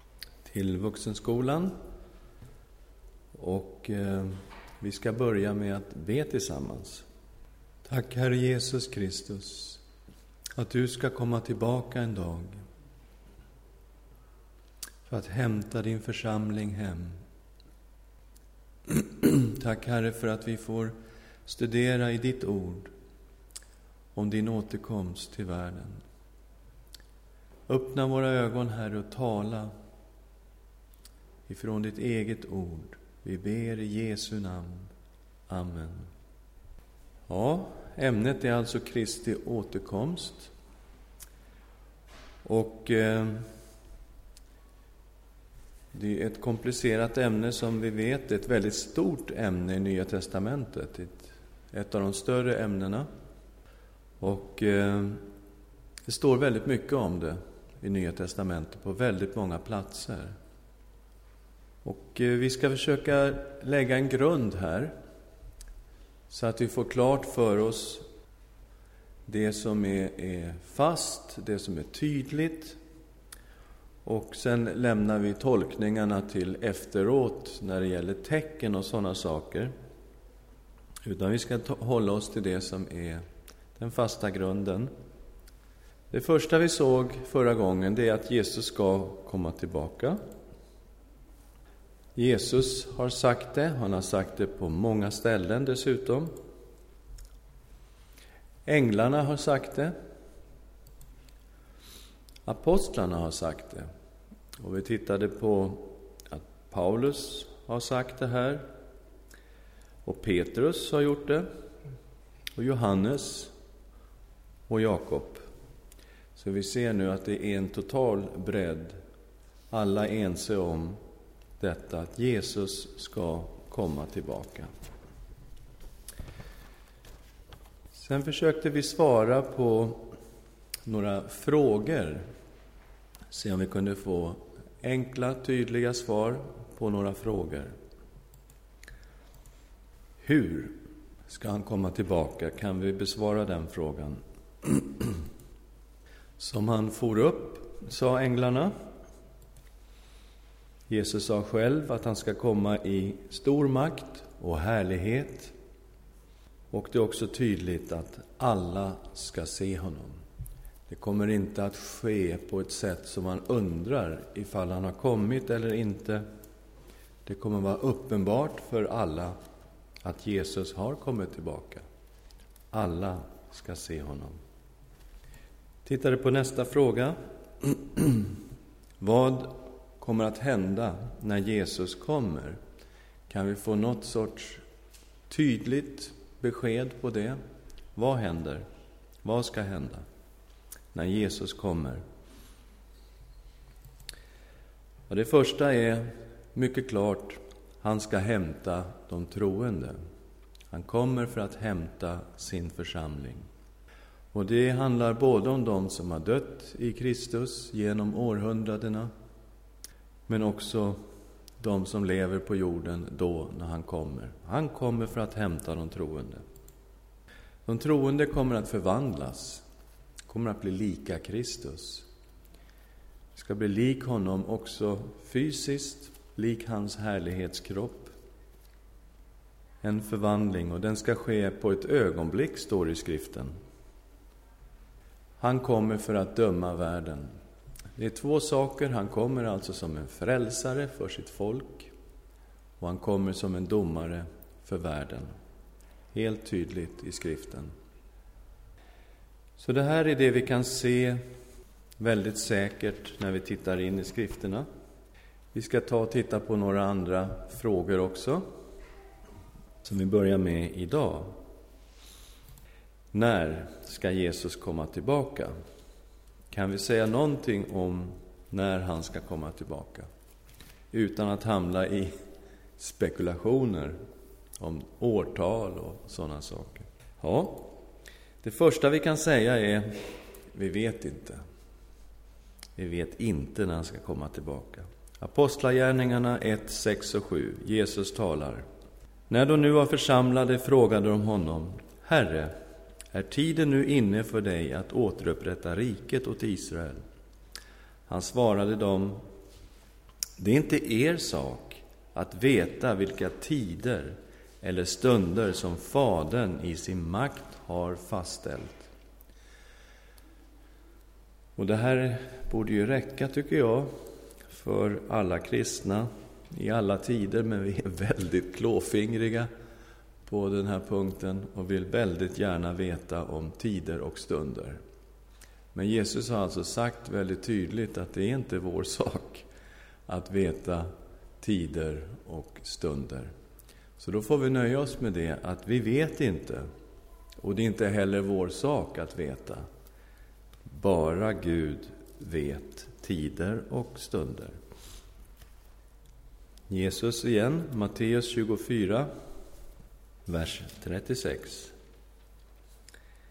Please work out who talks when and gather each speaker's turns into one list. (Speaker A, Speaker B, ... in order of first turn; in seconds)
Speaker A: 0.5-1.7, 3.3-7.0, 7.8-9.8, 10.6-12.6, 15.1-17.2, 18.9-22.9, 24.1-26.0, 27.7-29.7, 31.5-34.9, 35.5-36.1, 37.3-40.5, 42.4-43.5, 45.9-53.1, 54.2-55.2, 56.1-60.3, 61.8-64.9, 66.3-68.0, 69.3-72.8, 74.0-79.7, 81.0-83.2, 83.8-84.9, 86.1-90.2, 92.2-96.3, 98.7-99.9, 102.5-103.9, 104.6-108.7, 110.1-111.5, 112.6-113.5, 114.7-115.4, 116.3-119.0, 119.7-121.0, 121.6-124.7, 127.9-130.1, 130.9-132.3, 133.3-137.7, 140.2-145.2, 146.4-148.7, 150.9-155.5, 156.7-160.2, 160.9-166.2, 167.3-169.4, 170.0-171.8, 172.7-174.4, 175.8-178.3, 179.0-182.6, 183.3-184.6, 185.3-187.4, 188.0-188.7, 189.2-190.0, 190.9-192.0, 195.1-200.0, 200.7-203.4, 204.3-209.1, 210.3-211.0, 211.6-216.4, 217.7-219.6, 220.3-222.1, 223.3-228.1, 229.8-233.5, 235.4-237.3, 238.0-241.9, 242.8-245.3, 246.1-247.7, 249.6-251.2, 252.0-254.7, 255.5-258.4, 259.8-261.4, 263.1-265.5, 266.5-270.1, 270.9-272.1, 272.8-274.0, 274.6-277.8, 278.4-281.4, 282.8-288.6, 289.3-292.5, 293.1-297.0, 298.1-299.2, 300.4-308.9, 311.6-319.5, 320.3-324.8, 325.7-329.5, 330.1-333.3, 334.0-336.7, 337.4-339.7, 340.7-344.6, 346.7-349.1, 350.3-351.7